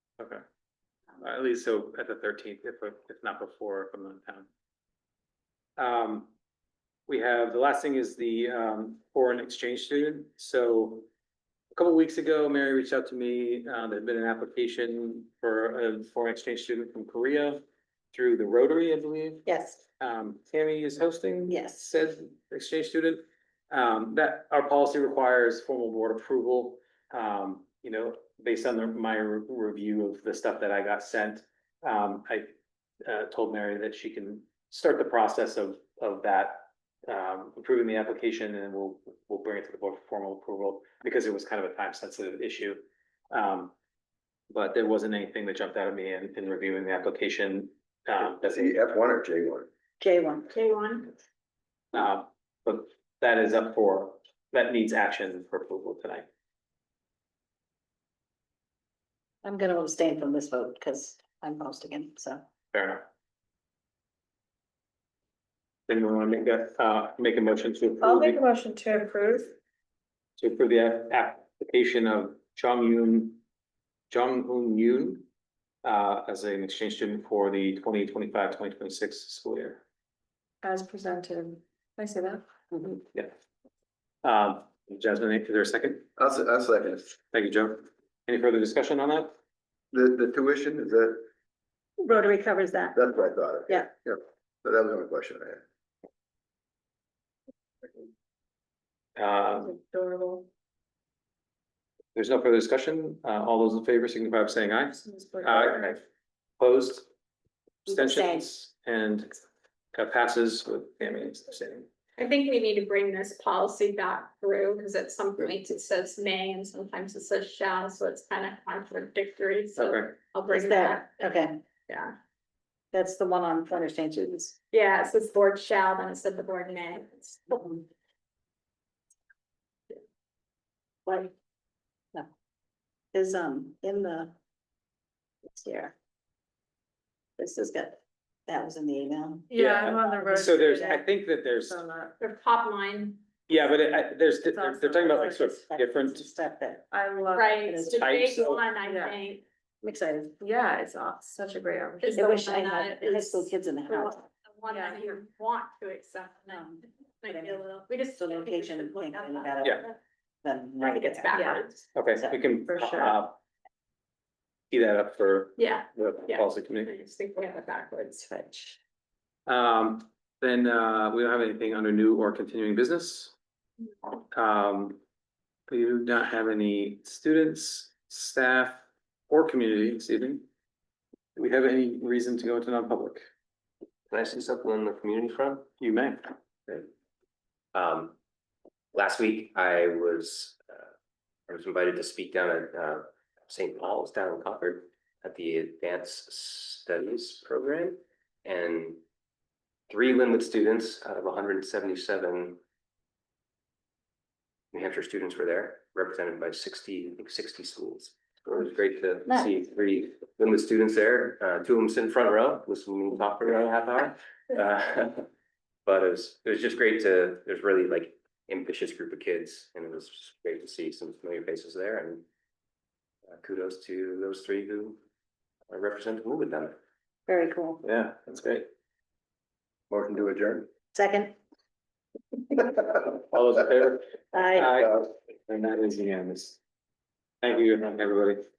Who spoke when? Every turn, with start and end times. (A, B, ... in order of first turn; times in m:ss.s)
0:01.2-0:04.5 A
0:05.8-0:06.3 A
0:07.1-0:11.1 A
0:11.7-0:19.4 A
0:19.4-0:19.8 B
0:20.0-0:32.5 A
0:21.5-0:21.9 B
0:33.0-0:43.7 A
0:44.5-0:48.8 A
0:48.4-0:49.7 C
0:50.0-0:50.5 B
0:50.5-0:51.1 D
0:51.9-0:56.2 A
0:59.4-1:02.4 B
1:02.7-1:03.0 A
1:05.9-1:08.4 A
1:08.0-1:09.5 E
1:10.4-1:13.4 A
1:14.1-1:15.2 A
1:15.8-1:19.8 A
1:20.6-1:22.4 E
1:24.2-1:26.1 A
1:26.2-1:27.2 C
1:27.3-1:29.3 A
1:29.9-1:31.3 C
1:32.0-1:33.0 B
1:32.9-1:35.6 C
1:39.2-1:39.8 A
1:39.6-1:40.5 E
1:42.1-1:46.0 A
1:44.9-1:46.0 E
1:46.6-1:47.1 A
1:47.8-1:48.4 B
1:47.9-1:49.4 A
1:49.9-1:51.9 A
1:52.2-2:01.1 D
1:59.8-2:00.1 A
2:00.5-2:01.6 B
2:01.9-2:02.1 D
2:02.9-2:04.6 B
2:04.7-2:07.7 D
2:11.0-2:11.3 B
2:13.1-2:14.3 B
2:15.5-2:15.9 B
2:17.4-2:21.0 B
2:19.5-2:21.0 E
2:19.6-2:21.8 A
2:21.6-2:22.1 E
2:22.2-2:23.2 D
2:23.5-2:26.3 A
2:24.5-2:25.5 E
2:25.7-2:26.8 B
2:26.9-2:27.9 E
2:27.3-2:29.4 D
2:27.6-2:28.4 B
2:28.0-2:28.6 A
2:28.8-2:29.2 E
2:29.8-2:30.4 B
2:30.4-2:32.6 E
2:32.0-2:40.0 D
2:32.2-2:34.2 B
2:34.7-2:35.2 E
2:36.5-2:41.4 B
2:40.8-2:41.8 D
2:41.3-2:41.6 E
2:41.9-2:43.4 A
2:42.6-2:43.2 E
2:44.7-2:46.9 A
2:45.6-2:48.3 D
2:48.3-2:48.7 B
2:49.4-2:53.3 A
2:54.3-2:55.0 A
2:55.7-3:00.4 A
3:01.4-3:03.2 A
3:04.1-3:05.6 F
3:05.8-3:06.2 A
3:07.7-3:08.1 F
3:08.9-3:10.8 F
3:11.5-3:19.0 F
3:19.9-3:22.6 F
3:24.7-3:35.3 F
3:29.3-3:29.5 B
3:35.8-3:42.2 F
3:43.3-3:45.0 F
3:45.7-3:46.7 F
3:47.3-3:47.8 B
3:47.8-3:48.7 A
3:49.9-3:50.7 C
3:50.9-3:51.3 B
3:53.0-3:56.6 A
3:54.3-3:54.8 B
3:57.4-3:58.4 A